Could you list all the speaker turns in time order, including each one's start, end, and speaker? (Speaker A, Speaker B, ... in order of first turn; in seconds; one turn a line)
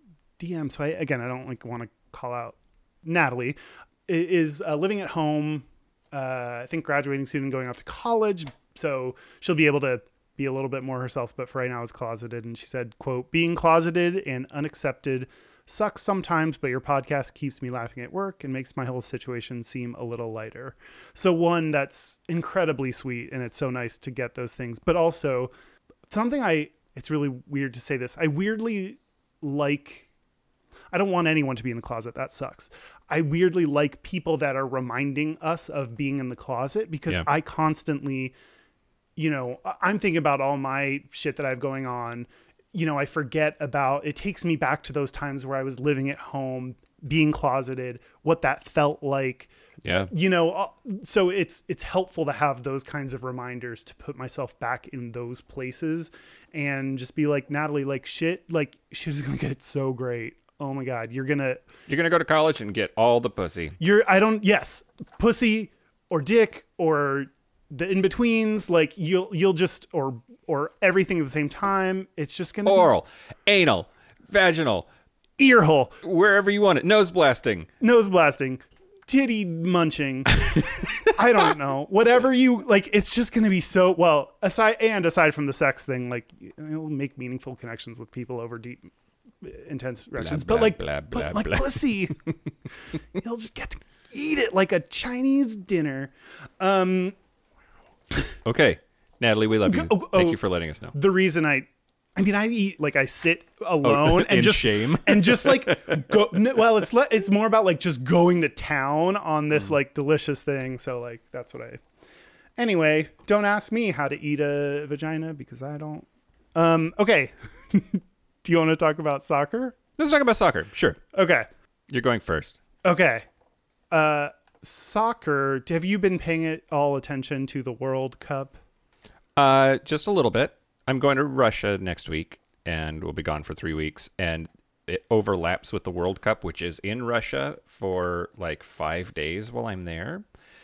Speaker A: 0.4-25.5
Speaker A: 26.1-30.1
Speaker A: 30.9-38.3
Speaker A: 39.2-61.6
Speaker B: 49.8-50.1
Speaker B: 61.9-63.8
Speaker A: 63.8-72.9
Speaker B: 72.7-74.9
Speaker A: 75.4-76.0
Speaker B: 76.0-77.7
Speaker A: 77.8-92.2
Speaker B: 90.2-92.3
Speaker A: 93.2-97.2
Speaker B: 98.5-101.0
Speaker A: 99.7-111.8
Speaker B: 103.8-106.1
Speaker A: 112.6-119.8
Speaker B: 120.0-121.0
Speaker A: 121.1-121.5
Speaker B: 121.9-122.6
Speaker A: 122.8-123.2
Speaker A: 123.9-128.6
Speaker B: 129.4-140.2